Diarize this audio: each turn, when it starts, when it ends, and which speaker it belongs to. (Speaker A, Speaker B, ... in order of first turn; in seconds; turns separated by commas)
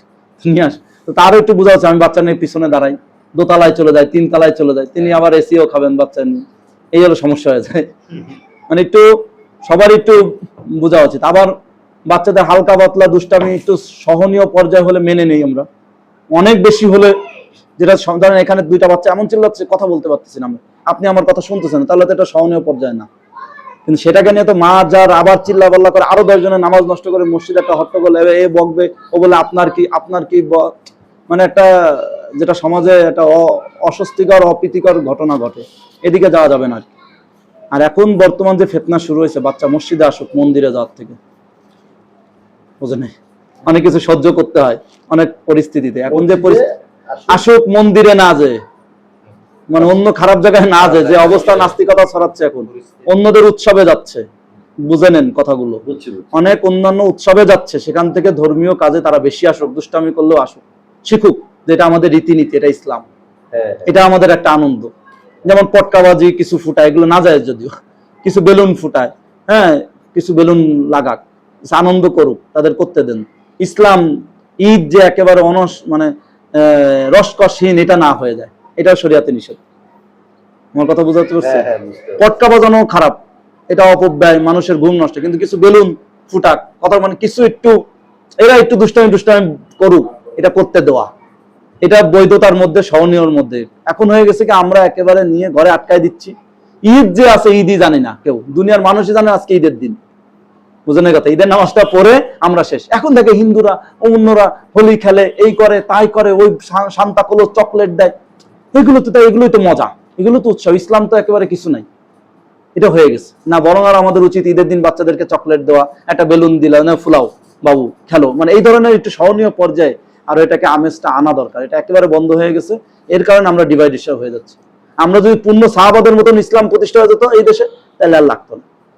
Speaker A: 0.4-7.9, Speaker A: 8.7-9.1, Speaker A: 9.6-11.5, Speaker A: 12.1-15.7, Speaker A: 16.3-17.1, Speaker A: 17.8-23.1, Speaker A: 23.9-30.7, Speaker A: 31.3-36.9, Speaker A: 37.7-41.2, Speaker A: 42.8-43.1, Speaker A: 43.6-46.6, Speaker B: 46.1-47.4, Speaker A: 47.3-48.6, Speaker A: 49.7-54.2, Speaker B: 50.8-51.7, Speaker A: 54.8-55.8, Speaker B: 55.8-56.3, Speaker A: 56.3-63.0, Speaker B: 63.5-63.9, Speaker A: 63.9-64.9, Speaker A: 65.5-67.7, Speaker A: 68.2-74.0, Speaker A: 74.6-79.6, Speaker A: 80.7-81.7, Speaker B: 81.4-82.2, Speaker A: 82.2-87.8, Speaker A: 88.4-91.1, Speaker A: 91.8-100.0, Speaker A: 100.9-108.1, Speaker A: 108.7-111.8, Speaker A: 112.8-128.6